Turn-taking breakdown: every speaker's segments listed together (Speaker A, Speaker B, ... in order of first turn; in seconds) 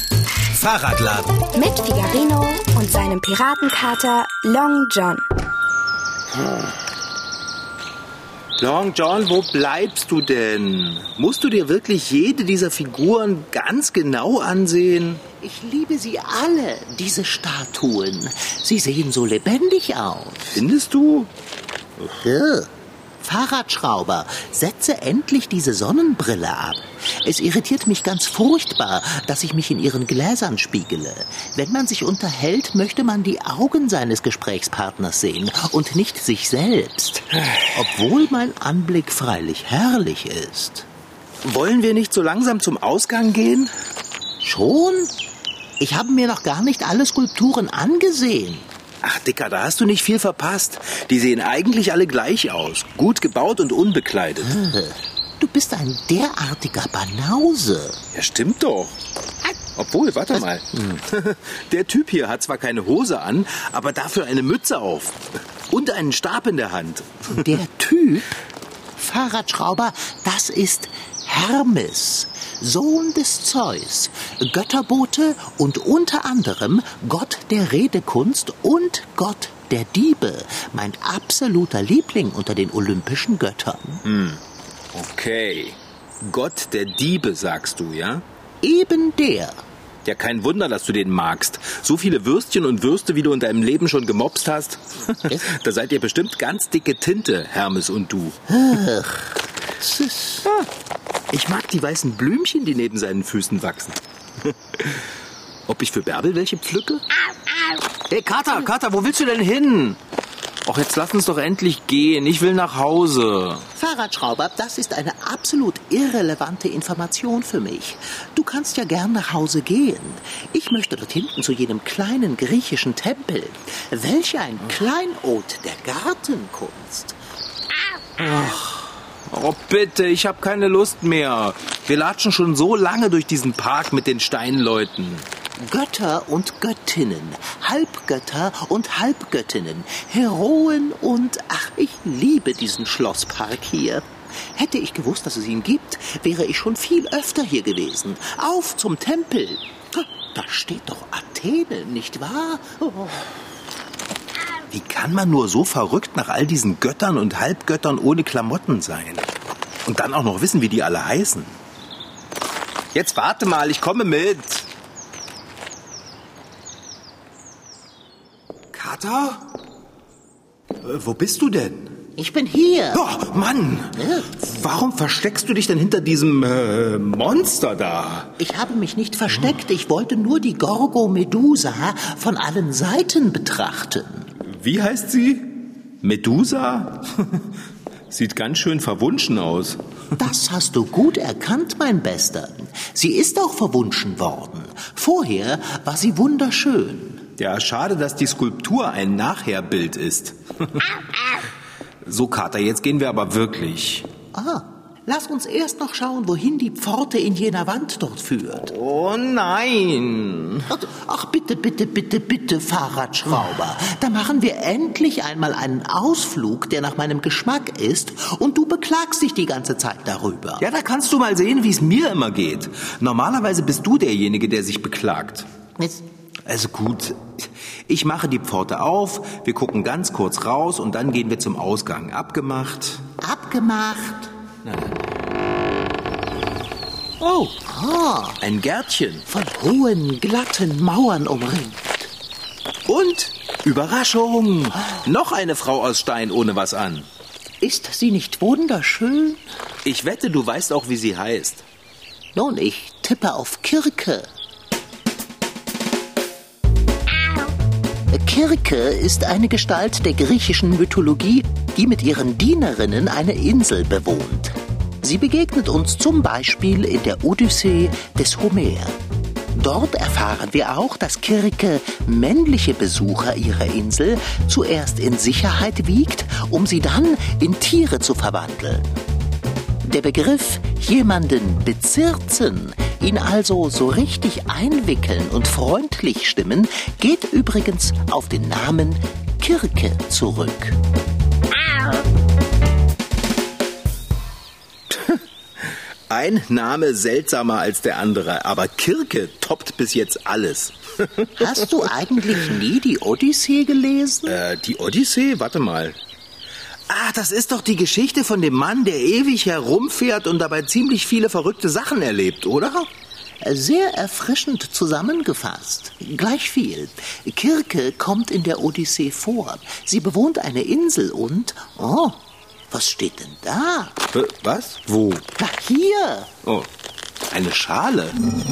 Speaker A: 0.5-1.4, 8.6-15.2, 20.5-21.3, 41.4-43.7, 49.0-54.5, 58.1-59.0, 59.5-67.4, 84.0-84.4, 84.9-88.2, 90.0-98.4, 101.3-105.0, 105.7-107.0, 108.1-110.0, 110.7-113.7, 128.2-135.3, 154.7-159.3, 159.8-161.6, 162.9-164.7, 168.7-169.4, 170.8-172.0, 172.9-178.3, 184.4-185.5, 186.0-187.4, 188.1-189.8, 197.4-200.9, 202.0-204.1, 208.6-210.7, 220.6-225.5, 226.4-233.0, 234.6-235.0, 237.2-237.5, 238.4-239.3, 242.9-247.1, 249.8-251.6, 294.9-301.8, 304.3-306.0, 306.9-312.9, 324.1-325.2, 327.3-328.2
Speaker B: 1.5-5.2
Speaker C: 15.3-20.6, 22.1-40.9, 44.4-45.1, 45.8-48.7, 54.4-58.0, 67.3-68.3, 69.0-84.0, 88.6-89.6, 98.5-100.5, 113.8-127.2, 135.6-153.3, 172.2-173.1, 173.9-174.3, 178.4-184.3, 190.2-197.2, 204.3-208.7, 210.7-220.6, 225.8-226.0, 233.2-234.3, 237.6-238.4, 239.3-242.1, 247.6-249.4, 252.3-254.3, 258.1-269.0, 269.5-279.0, 279.8-290.8, 301.4-304.4, 313.4-322.2, 322.7-324.0, 325.4-326.3